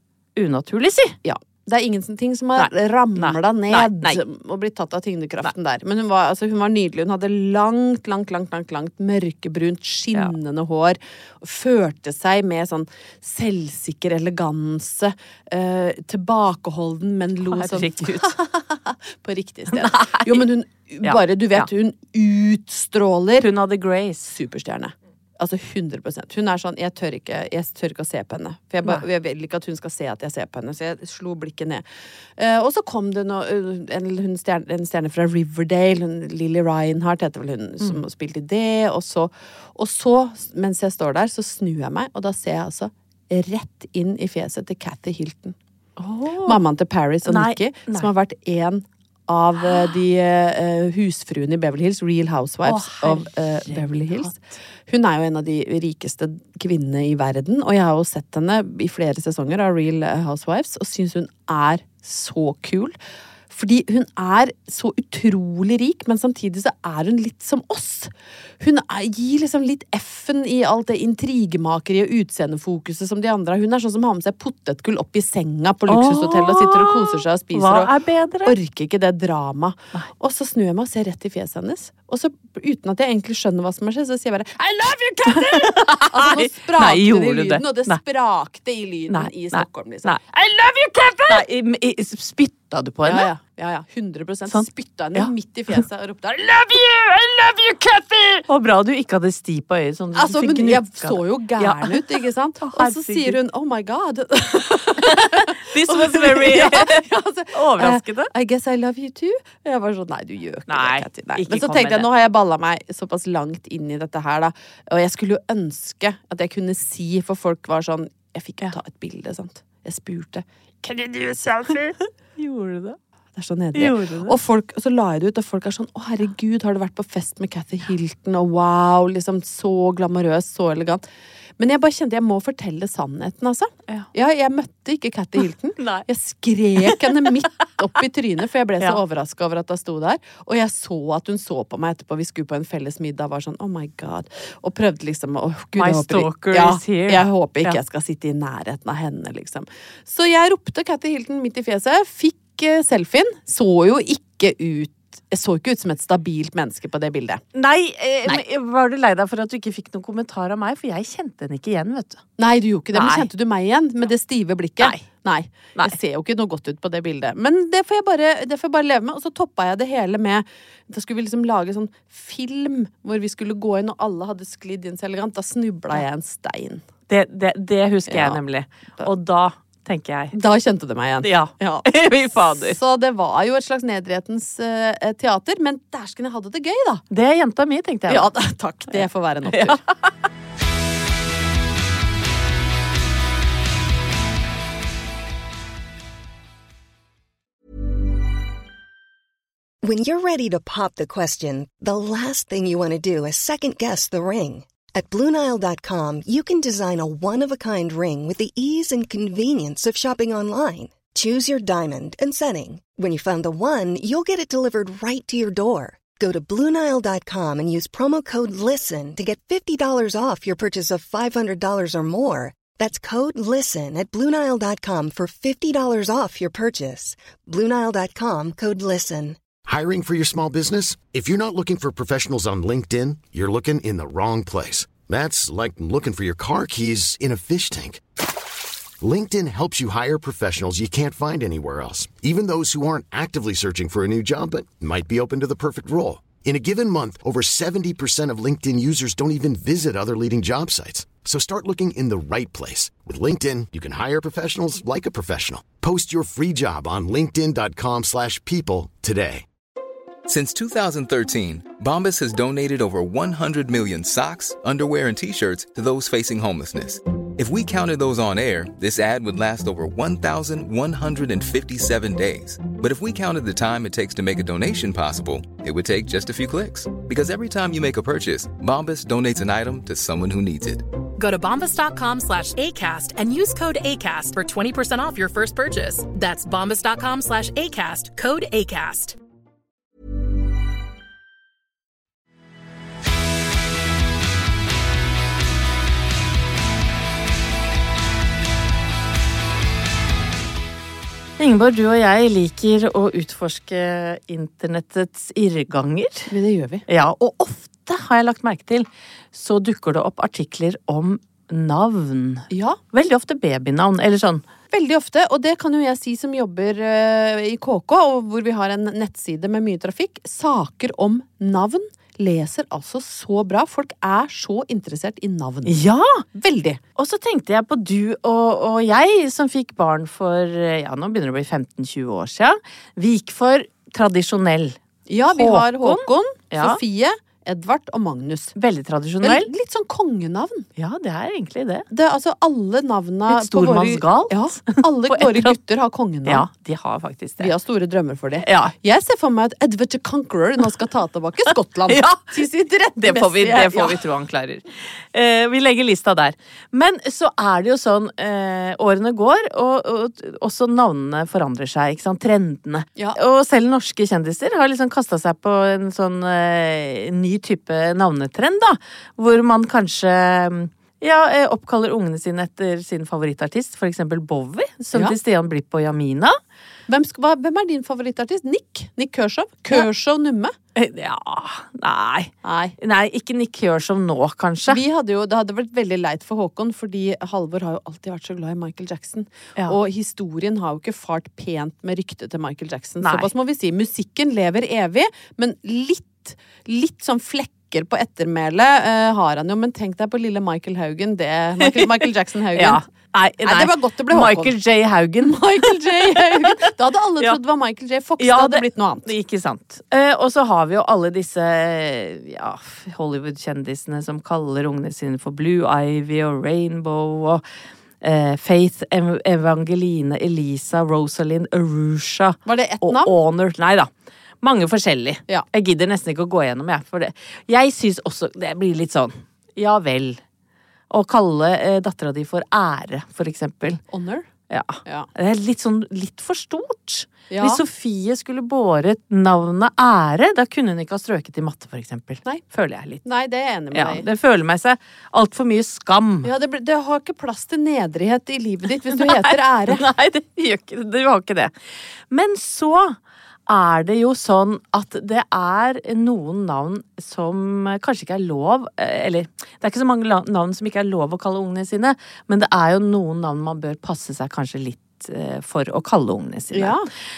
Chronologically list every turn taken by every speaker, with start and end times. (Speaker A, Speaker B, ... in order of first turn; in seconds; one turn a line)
Speaker A: 0.3-1.2
Speaker B: 1.2-23.5
Speaker A: 2.5-4.2
Speaker A: 17.5-18.3
Speaker A: 19.7-20.5
Speaker A: 21.0-21.7
Speaker A: 23.4-24.3
Speaker B: 24.2-31.8
Speaker B: 32.4-45.5
Speaker A: 46.0-46.6
Speaker B: 46.4-54.4
Speaker A: 47.2-48.1
Speaker A: 52.6-54.4
Speaker B: 54.9-63.0
Speaker B: 63.5-77.9
Speaker A: 75.9-78.5
Speaker B: 78.4-91.4
Speaker A: 85.2-88.0
Speaker A: 89.1-90.2
Speaker A: 91.3-93.3
Speaker B: 93.0-98.4
Speaker A: 94.5-95.8
Speaker A: 98.5-102.1
Speaker B: 100.2-121.9
Speaker A: 102.6-103.4
Speaker A: 105.0-108.3
Speaker A: 110.7-112.1
Speaker A: 120.9-123.0
Speaker B: 123.3-131.0
Speaker A: 123.7-124.3
Speaker B: 131.6-157.4
Speaker A: 135.8-136.1
Speaker A: 136.8-137.0
Speaker A: 145.7-147.8
Speaker A: 157.5-162.2
Speaker B: 162.4-176.8
Speaker A: 162.9-163.3
Speaker A: 164.8-165.0
Speaker A: 177.1-180.3
Speaker B: 178.1-178.4
Speaker B: 180.3-181.9
Speaker A: 181.2-182.8
Speaker B: 182.5-187.0
Speaker A: 187.1-188.3
Speaker B: 188.1-189.8
Speaker A: 188.9-190.1
Speaker C: 199.8-229.4
Speaker D: 229.6-238.0
Speaker D: 239.0-259.4
Speaker E: 260.2-280.9
Speaker F: 281.2-289.2
Speaker A: 301.4-306.3
Speaker B: 306.3-306.8
Speaker A: 306.9-314.4
Speaker B: 312.5-312.8
Speaker B: 314.7-326.8
Speaker A: 325.6-326.2
Speaker A: 327.0-336.8
Speaker B: 335.1-338.5
Speaker A: 338.6-339.5
Speaker B: 339.2-340.7
Speaker A: 340.8-341.8
Speaker B: 341.9-346.4
Speaker A: 343.3-345.6
Speaker A: 346.2-347.5
Speaker B: 347.4-354.0
Speaker A: 348.4-348.7
Speaker A: 351.9-352.4
Speaker A: 353.0-376.4
Speaker B: 376.9-380.5
Speaker A: 380.8-384.8
Speaker B: 382.4-382.7
Speaker B: 384.7-402.8
Speaker A: 393.0-393.3
Speaker A: 401.6-407.4
Speaker B: 403.4-404.5
Speaker B: 405.2-409.1
Speaker A: 408.2-417.4
Speaker A: 418.0-423.9
Speaker B: 422.4-423.1
Speaker A: 424.4-430.2
Speaker A: 430.9-433.8
Speaker B: 433.9-434.3
Speaker A: 434.5-443.0
Speaker B: 437.3-437.6
Speaker B: 443.0-444.1
Speaker A: 443.7-446.3
Speaker B: 446.2-449.8
Speaker A: 448.9-451.5
Speaker A: 452.1-466.8
Speaker B: 466.5-466.9